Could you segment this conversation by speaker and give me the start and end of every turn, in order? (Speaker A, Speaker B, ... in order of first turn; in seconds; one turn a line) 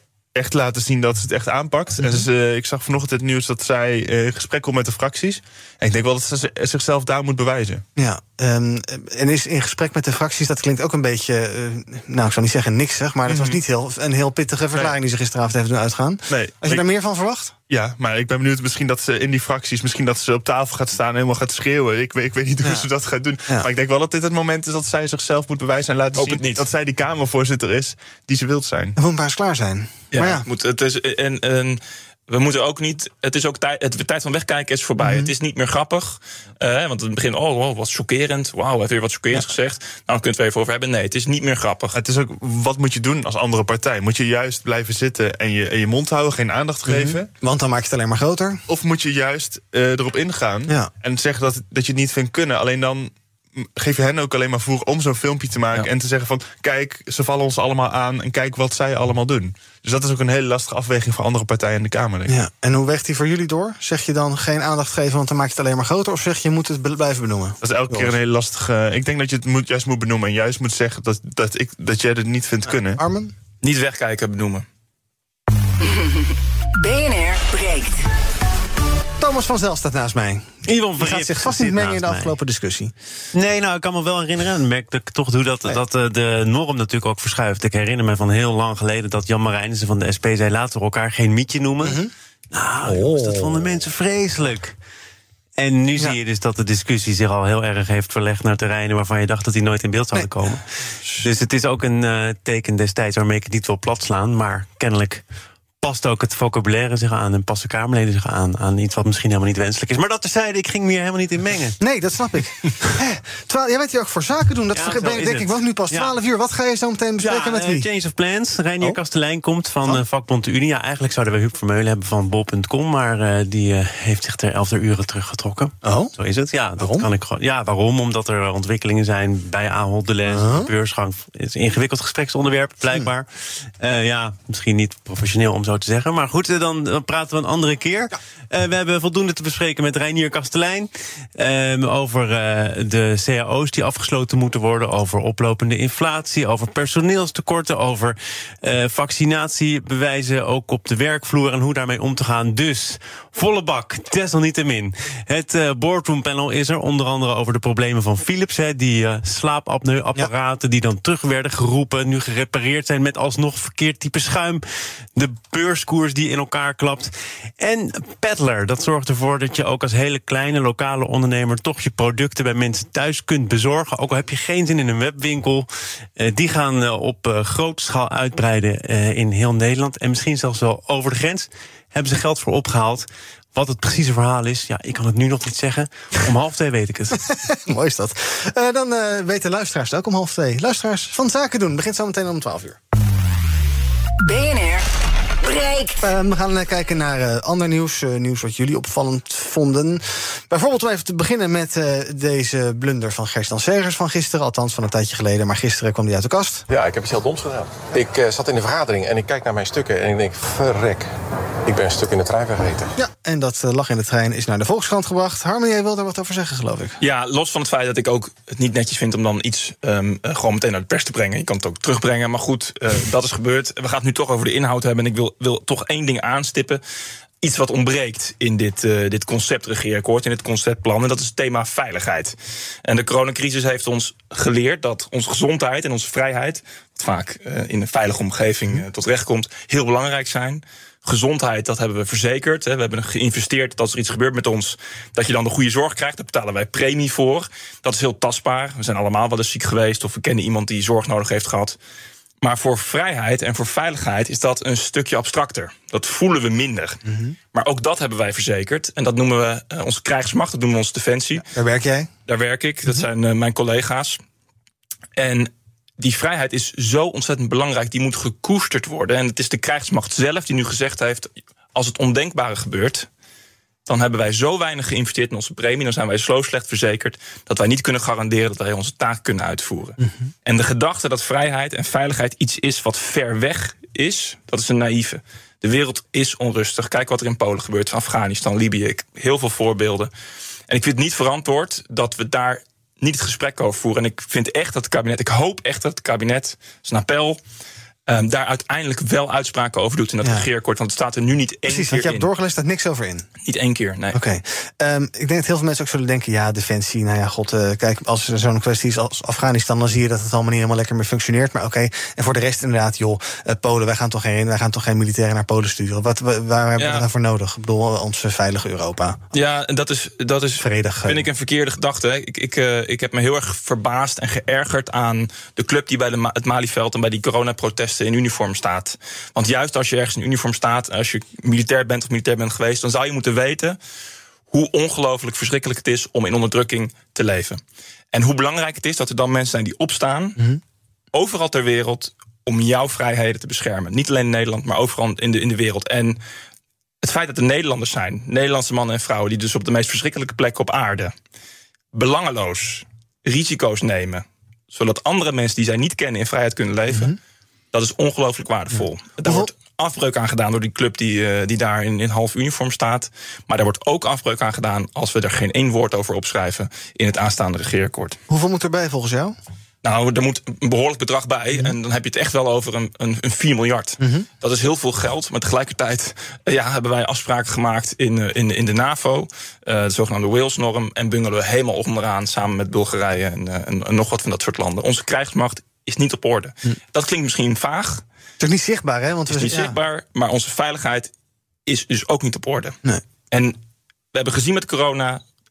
Speaker A: 0.3-7.8
Speaker B: 2.0-2.3
Speaker B: 8.0-17.5
Speaker A: 13.3-13.6
Speaker A: 16.3-16.9
Speaker A: 17.7-29.0
Speaker C: 26.1-26.7
Speaker B: 29.0-30.5
Speaker C: 30.1-42.0
Speaker B: 35.0-35.3
Speaker A: 41.9-47.3
Speaker B: 46.9-48.6
Speaker A: 48.7-53.1
Speaker A: 53.8-62.4
Speaker B: 62.3-68.2
Speaker A: 67.6-73.0
Speaker B: 72.7-73.3
Speaker C: 73.6-74.7
Speaker D: 75.8-78.0
Speaker B: 79.2-82.9
Speaker E: 80.7-82.4
Speaker E: 83.3-94.8
Speaker B: 91.8-92.1
Speaker B: 92.8-93.6
Speaker E: 95.6-100.7
Speaker B: 100.2-100.5
Speaker E: 101.2-105.2
Speaker E: 105.8-111.8
Speaker B: 111.8-117.9
Speaker E: 114.7-116.2
Speaker E: 117.2-164.6
Speaker B: 125.8-126.1
Speaker B: 126.8-127.1
Speaker B: 130.3-130.7
Speaker E: 165.2-187.2
Speaker B: 187.4-192.8
Speaker D: 194.2-194.9
Speaker D: 195.4-196.1
Speaker B: 196.0-206.6
Speaker F: 206.7-211.1
Speaker F: 211.7-212.9
Speaker B: 213.0-217.0
Speaker C: 217.0-226.8
Speaker C: 227.4-232.3
Speaker C: 232.9-251.8
Speaker C: 252.4-257.0
Speaker B: 257.1-257.4
Speaker C: 257.5-261.4
Speaker B: 261.5-262.1
Speaker C: 262.3-264.2
Speaker C: 265.2-273.1
Speaker C: 273.9-290.1
Speaker B: 280.0-280.3
Speaker C: 290.7-297.4
Speaker C: 298.1-302.3
Speaker B: 301.7-303.3
Speaker C: 303.5-304.2
Speaker B: 304.1-319.2
Speaker C: 316.8-317.1
Speaker C: 319.3-333.8
Speaker B: 320.6-321.3
Speaker C: 334.5-337.6
Speaker C: 338.1-340.4
Speaker C: 341.1-346.2
Speaker C: 347.0-351.1
Speaker C: 351.9-357.2
Speaker B: 356.9-357.1
Speaker C: 357.7-368.2
Speaker B: 359.2-359.5
Speaker B: 368.3-369.4
Speaker C: 369.8-388.0
Speaker B: 374.0-374.3
Speaker B: 388.4-389.8
Speaker C: 389.3-391.1
Speaker C: 391.7-392.8
Speaker C: 393.3-393.6
Speaker C: 394.1-395.2